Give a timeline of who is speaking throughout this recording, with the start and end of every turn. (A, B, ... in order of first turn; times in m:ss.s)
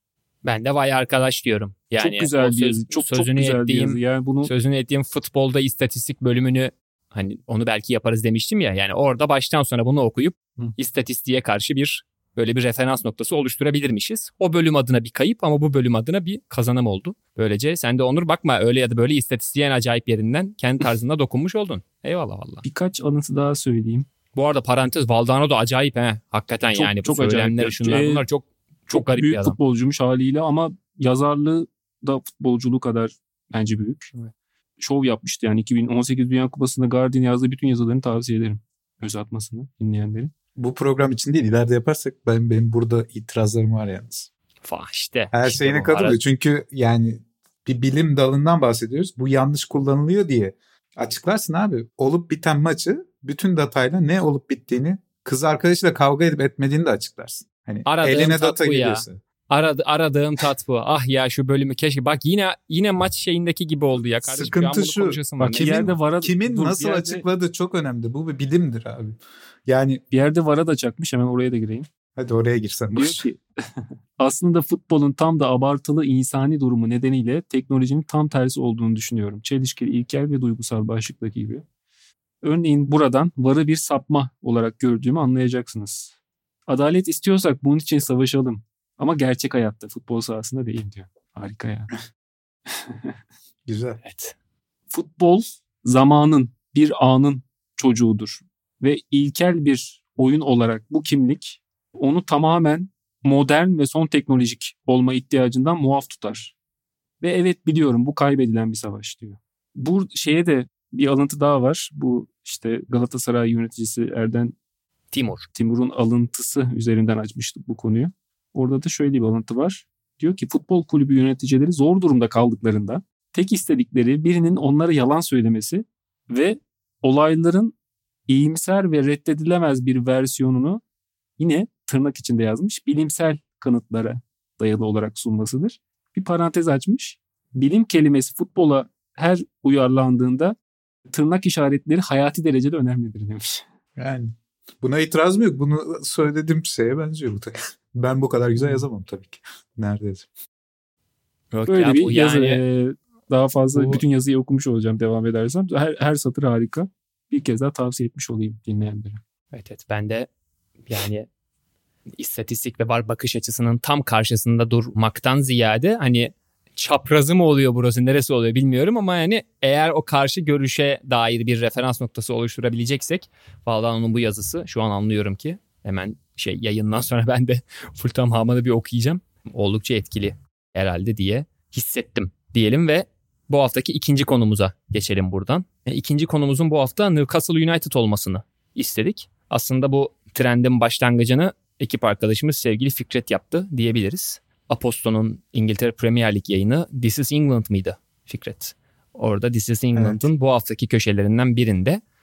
0:00.4-0:22.6 A
0:02.0-0:04.5 B
0:22.6-0:24.1 B
0:24.3-0:29.6 A
0:26.7-0:28.2 B
0:28.9-0:34.1 B
0:34.8-0:40.3 B
0:40.6-0:44.3 C
0:44.6-0:46.2 A
0:45.3-0:59.2 C
0:57.8-1:05.9 A
1:04.2-1:05.2 C
1:05.4-1:07.2 B
1:06.2-1:10.0 C
1:10.1-1:11.9 B
1:12.2-1:13.2 C
1:13.0-1:13.4 B
1:14.2-1:21.6 B
1:22.4-1:26.1 B
1:26.7-1:31.9 B
1:33.7-1:34.0 C
1:34.0-1:34.3 A
1:34.9-1:46.5 B
1:47.2-1:54.6 B
1:55.1-1:55.5 A
1:55.6-2:07.7 B
2:08.3-2:10.8 B
2:11.4-2:20.5 B
2:21.1-2:23.6 B
2:24.0-2:30.3 C
2:31.5-2:32.6 A
2:31.7-2:39.2 B
2:33.7-2:34.0 A
2:39.5-2:40.3 A
2:40.9-2:41.3 A
2:42.2-3:22.0 A
3:19.9-3:20.3 C